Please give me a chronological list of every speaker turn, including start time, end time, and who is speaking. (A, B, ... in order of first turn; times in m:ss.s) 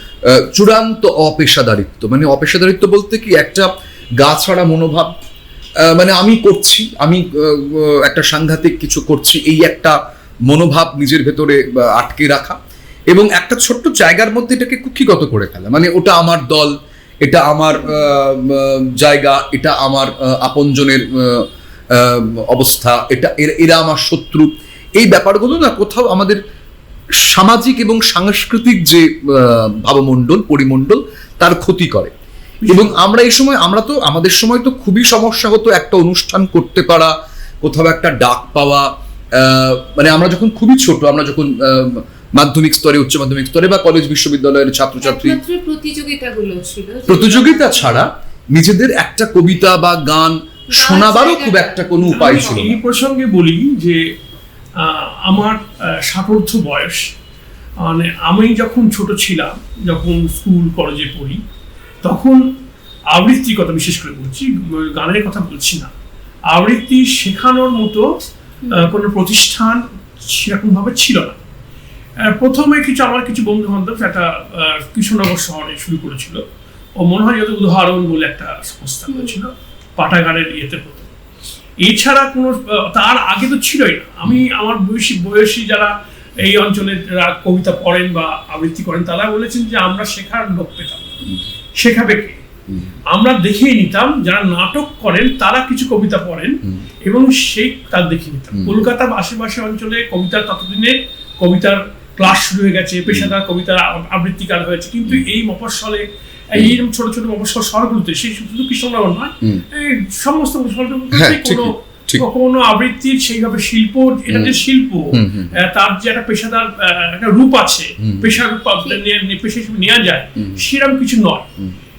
0:00.2-0:05.1 A
0:05.8-0:12.6 A
0:13.1-0:26.4 A
0:27.2-0:32.1 A
0:32.6-0:33.0 B
0:32.7-0:45.4 A
0:45.0-0:48.1 C
0:47.1-0:52.8 A
0:50.7-0:52.7 C
0:52.1-0:54.0 B
0:54.8-0:57.0 B
0:57.8-1:01.4 B
1:02.0-1:02.4 B
1:03.1-1:05.9 B
1:06.5-1:08.0 B
1:08.6-1:08.9 C
1:08.7-1:11.4 B
1:12.2-1:16.4 B
1:17.0-1:21.1 B
1:19.1-1:19.4 C
1:21.8-1:31.1 B
1:31.8-1:32.4 B
1:32.7-1:33.0 A
1:33.1-2:01.5 B
1:38.5-1:38.9 A
1:43.1-1:43.3 A
1:46.5-1:46.8 A
1:51.1-1:52.3 A
1:54.3-1:55.6 A
1:58.0-1:58.4 A
2:00.4-2:00.6 A